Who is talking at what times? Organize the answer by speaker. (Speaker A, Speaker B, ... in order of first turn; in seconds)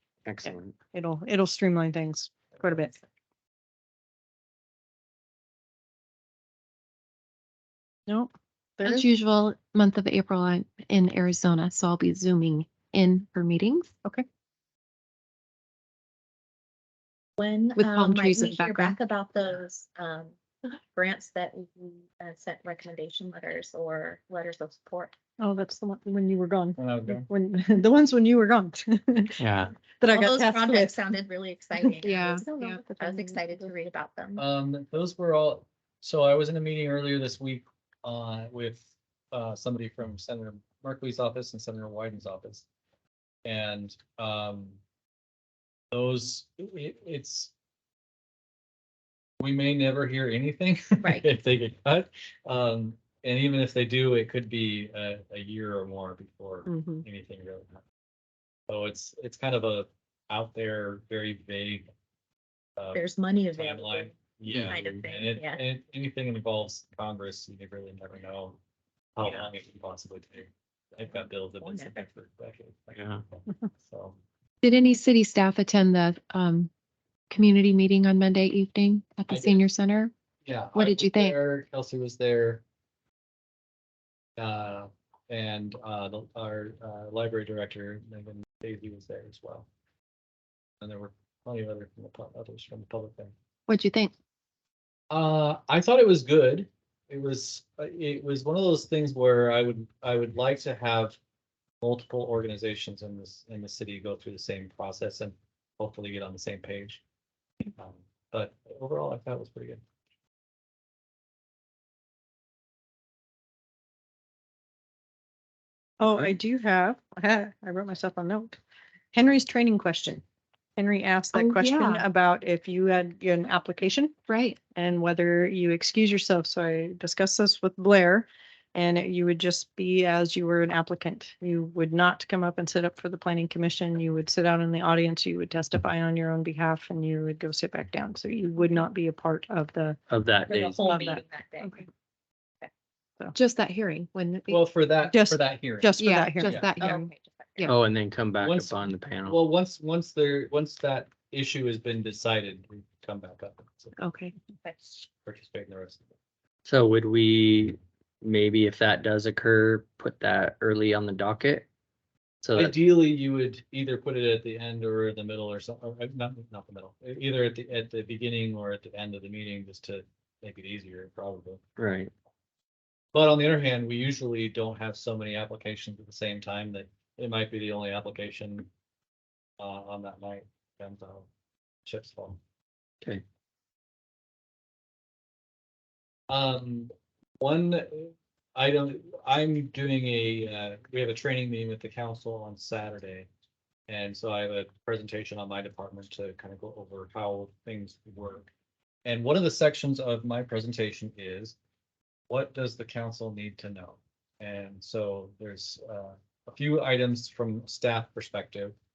Speaker A: 0.2-0.8, 29.4-29.7, 64.5-65.1, 72.9-73.2, 140.1-140.8, 147.7-149.4, 156.7-161.7, 162.4-162.8, 171.8-172.1
Speaker B: 0.4-3.0, 8.1-9.1, 25.4-29.4, 30.0-31.0, 33.0-33.6, 56.7-57.0, 116.0-118.6, 119.1-120.2, 120.8-124.1, 124.7-140.0, 140.8-141.8, 145.1-147.1
Speaker C: 8.8-13.9, 17.8-19.0, 32.0-33.2, 74.6-76.7, 77.3-80.1, 80.7-81.4, 93.7-94.1, 121.3-122.1, 124.3-124.6, 143.3-144.6, 145.9-147.0, 154.0-154.3
Speaker D: 17.4-25.1, 30.1-34.5, 51.0-51.3, 62.9-65.6, 71.6-72.0, 140.5-141.8, 146.8-147.8, 154.6-155.0
Speaker E: 26.8-27.3, 34.4-42.7, 43.5-44.8, 45.9-47.5, 49.4-57.8, 58.7-61.9, 62.8-68.6, 69.2-73.1, 73.8-74.2, 79.3-79.6, 80.5-82.6, 84.4-89.7, 90.8-93.3, 95.1-101.2, 101.8-107.0, 107.8-109.8, 144.5-145.9, 146.5-146.7, 148.4-153.9, 155.2-156.1, 162.6-171.6, 173.1-178.7, 179.6-181.3, 181.8-182.4, 186.3-193.3, 193.9-198.5, 199.1-201.6, 202.3-208.8